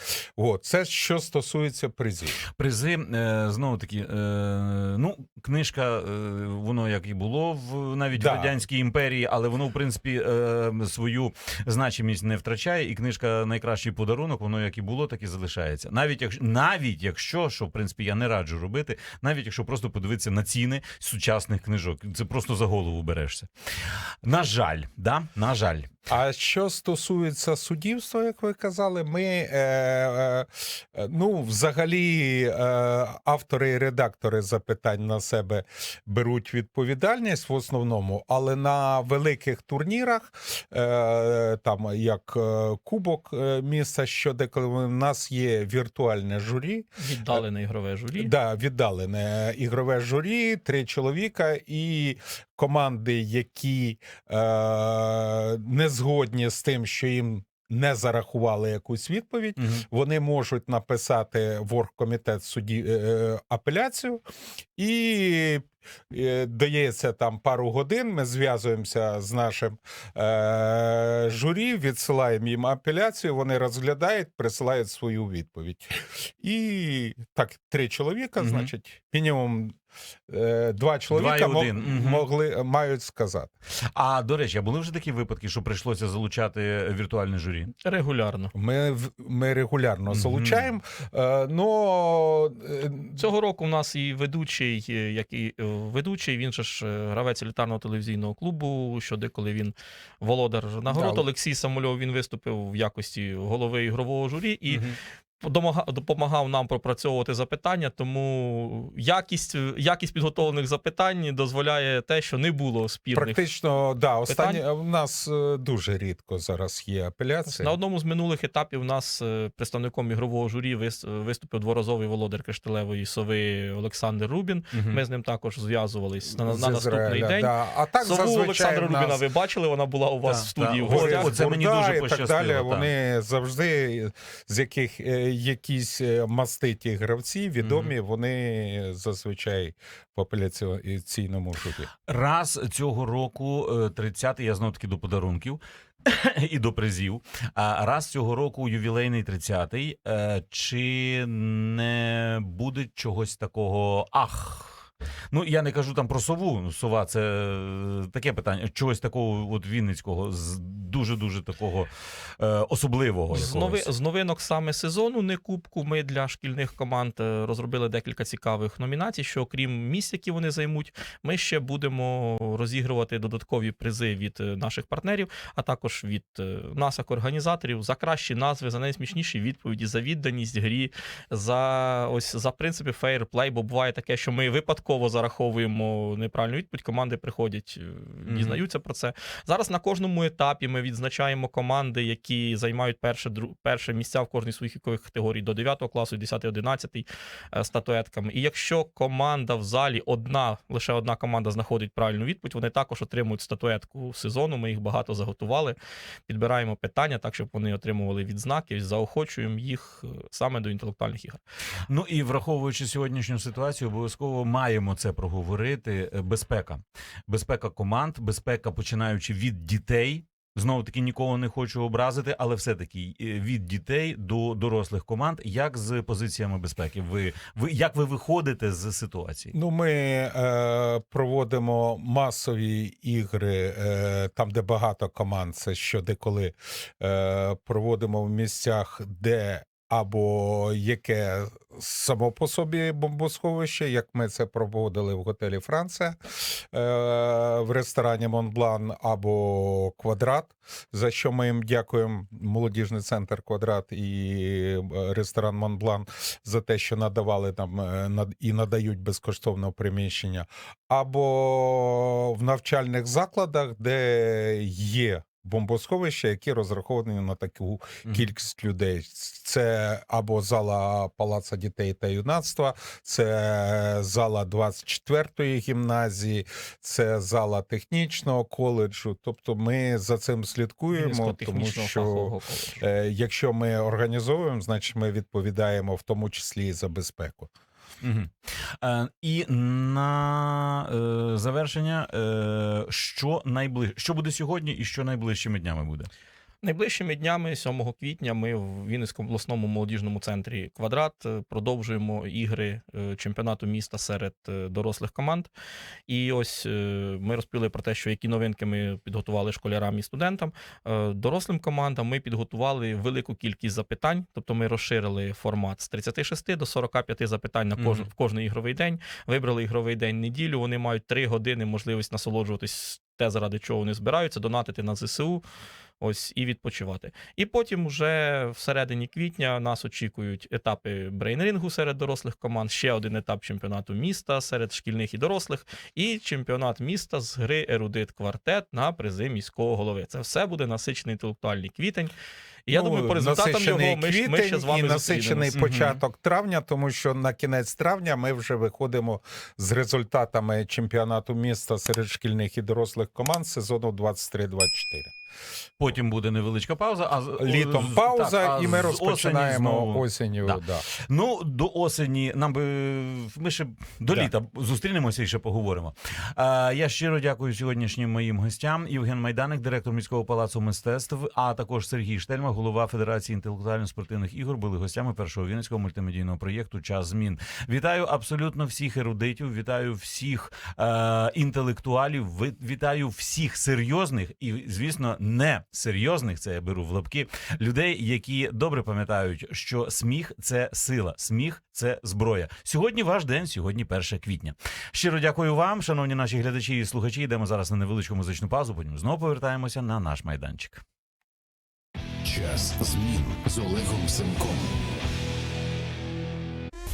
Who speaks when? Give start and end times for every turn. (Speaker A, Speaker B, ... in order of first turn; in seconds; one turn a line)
Speaker A: 0.4-2.4
Speaker B: 2.5-25.9
Speaker A: 8.1-8.5
Speaker A: 26.1-47.4
Speaker C: 47.0-48.3
Speaker A: 48.1-64.2
Speaker B: 59.6-59.8
Speaker A: 64.8-79.8
Speaker B: 78.4-78.7
Speaker A: 80.3-83.5
Speaker B: 81.1-82.2
Speaker B: 83.9-87.7
Speaker C: 87.8-88.5
Speaker A: 88.5-93.2
Speaker B: 90.1-90.7
Speaker C: 93.2-113.4
Speaker A: 100.9-101.2
Speaker A: 113.1-117.7
Speaker C: 114.3-114.6
Speaker C: 117.5-131.3
Speaker B: 124.7-125.0
Speaker A: 126.4-129.2
Speaker B: 130.2-132.9
Speaker A: 130.8-141.9
Speaker B: 137.6-137.9
Speaker B: 142.1-163.9
Speaker C: 163.3-211.4
Speaker B: 188.3-188.6
Speaker B: 211.9-229.5
Speaker A: 229.5-246.2
Speaker A: 246.7-287.5
Speaker C: 280.9-282.8
Speaker B: 288.0-296.1
Speaker C: 296.6-305.5
Speaker C: 306.1-325.4
Speaker B: 317.8-318.1
Speaker C: 326.0-342.1
Speaker C: 342.6-345.5
Speaker A: 342.7-355.1
Speaker B: 345.5-346.0
Speaker B: 355.8-400.8
Speaker A: 357.4-360.9
Speaker D: 402.2-404.7